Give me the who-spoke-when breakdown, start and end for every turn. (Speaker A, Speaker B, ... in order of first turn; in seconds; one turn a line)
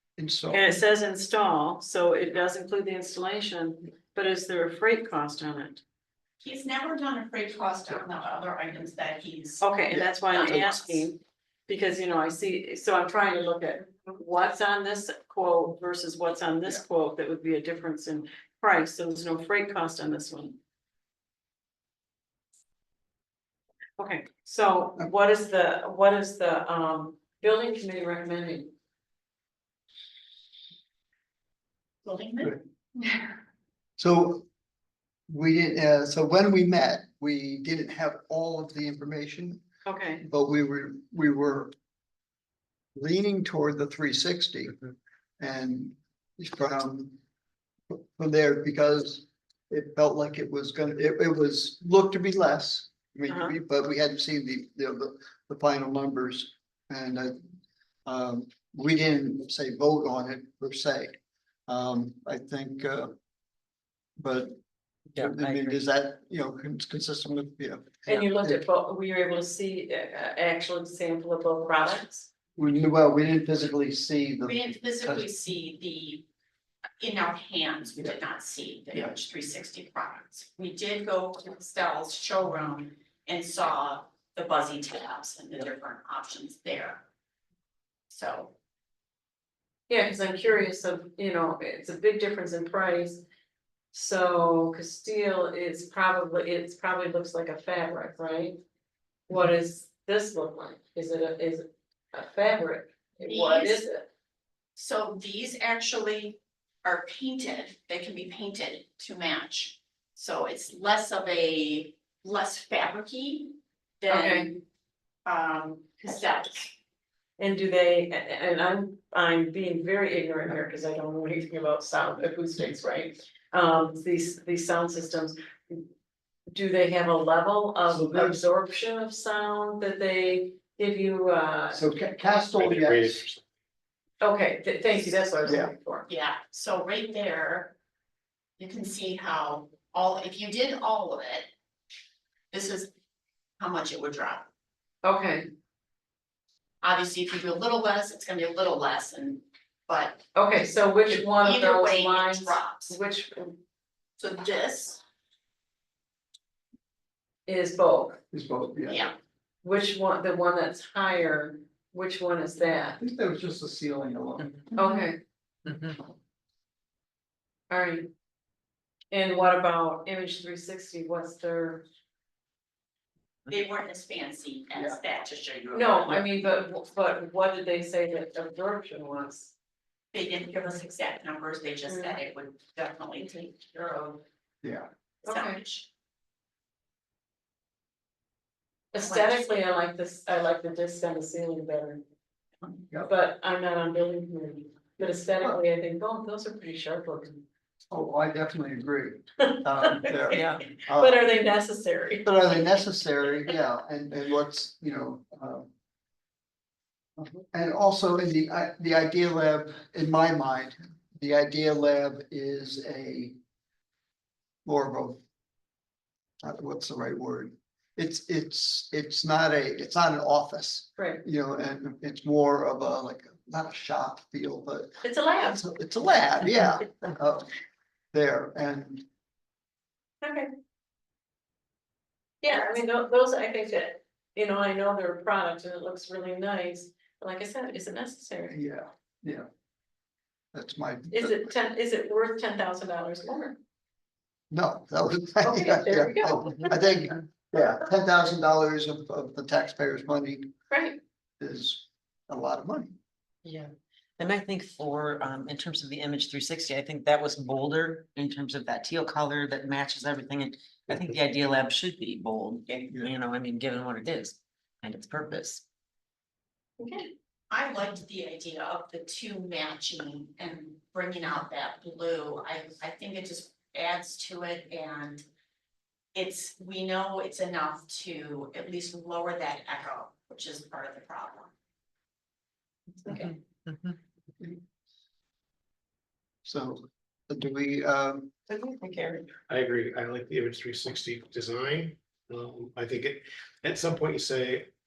Speaker A: 0.2-0.8
Speaker B: 0.5-5.8
Speaker C: 6.4-9.7
Speaker B: 9.6-20.6
Speaker C: 10.3-11.1
Speaker B: 24.0-28.7
Speaker C: 32.0-32.6
Speaker A: 32.4-33.1
Speaker A: 34.0-34.4
Speaker A: 35.3-39.6
Speaker B: 39.9-40.2
Speaker A: 40.2-41.7
Speaker A: 42.9-44.8
Speaker A: 45.4-47.1
Speaker A: 47.9-57.3
Speaker B: 53.3-53.5
Speaker A: 58.0-63.1
Speaker A: 64.2-64.5
Speaker A: 65.1-68.6
Speaker D: 65.2-65.7
Speaker B: 68.1-72.3
Speaker A: 72.6-75.2
Speaker C: 74.4-76.2
Speaker C: 77.0-87.0
Speaker C: 88.1-88.5
Speaker B: 89.9-93.2
Speaker B: 93.9-98.6
Speaker B: 99.3-104.0
Speaker C: 103.2-103.8
Speaker C: 104.8-114.6
Speaker B: 114.1-114.5
Speaker C: 115.2-116.7
Speaker B: 117.4-125.9
Speaker B: 126.5-131.8
Speaker A: 127.9-128.5
Speaker A: 131.7-133.2
Speaker E: 132.6-133.4
Speaker B: 134.2-136.0
Speaker A: 135.4-135.7
Speaker C: 136.1-137.7
Speaker C: 138.6-141.5
Speaker C: 142.5-142.9
Speaker C: 143.6-144.4
Speaker B: 145.0-145.5
Speaker C: 146.8-150.2
Speaker B: 150.3-153.6
Speaker C: 151.1-153.0
Speaker C: 154.2-155.0
Speaker B: 157.5-158.2
Speaker A: 158.3-159.1
Speaker C: 158.9-159.1
Speaker B: 159.6-163.0
Speaker A: 163.0-165.0
Speaker B: 164.8-165.2
Speaker D: 165.7-165.9
Speaker B: 167.7-168.1
Speaker B: 169.1-171.8
Speaker C: 173.5-176.2
Speaker B: 175.7-179.5
Speaker C: 180.1-184.2
Speaker B: 181.9-182.2
Speaker C: 185.2-185.9
Speaker B: 185.2-185.6
Speaker B: 188.9-192.0
Speaker C: 189.0-189.4
Speaker B: 193.0-197.4
Speaker A: 197.9-201.3
Speaker B: 199.8-200.1
Speaker D: 200.3-200.6
Speaker B: 201.0-202.3
Speaker A: 202.2-205.7
Speaker A: 207.2-213.3
Speaker A: 214.6-215.2
Speaker A: 216.4-227.5
Speaker B: 221.0-221.2
Speaker B: 225.0-225.6
Speaker A: 228.1-229.1
Speaker B: 230.2-230.5
Speaker B: 232.4-238.6
Speaker C: 232.5-232.8
Speaker A: 238.5-239.5
Speaker A: 240.5-241.5
Speaker B: 241.1-243.6
Speaker A: 244.5-250.5
Speaker B: 245.4-246.6
Speaker B: 250.7-251.0
Speaker A: 251.4-252.9
Speaker D: 253.4-265.6
Speaker B: 266.8-267.1
Speaker C: 267.5-275.2
Speaker C: 276.1-281.5
Speaker B: 283.0-283.3
Speaker D: 283.1-283.9
Speaker A: 286.4-288.3
Speaker B: 288.5-289.3
Speaker E: 289.5-294.7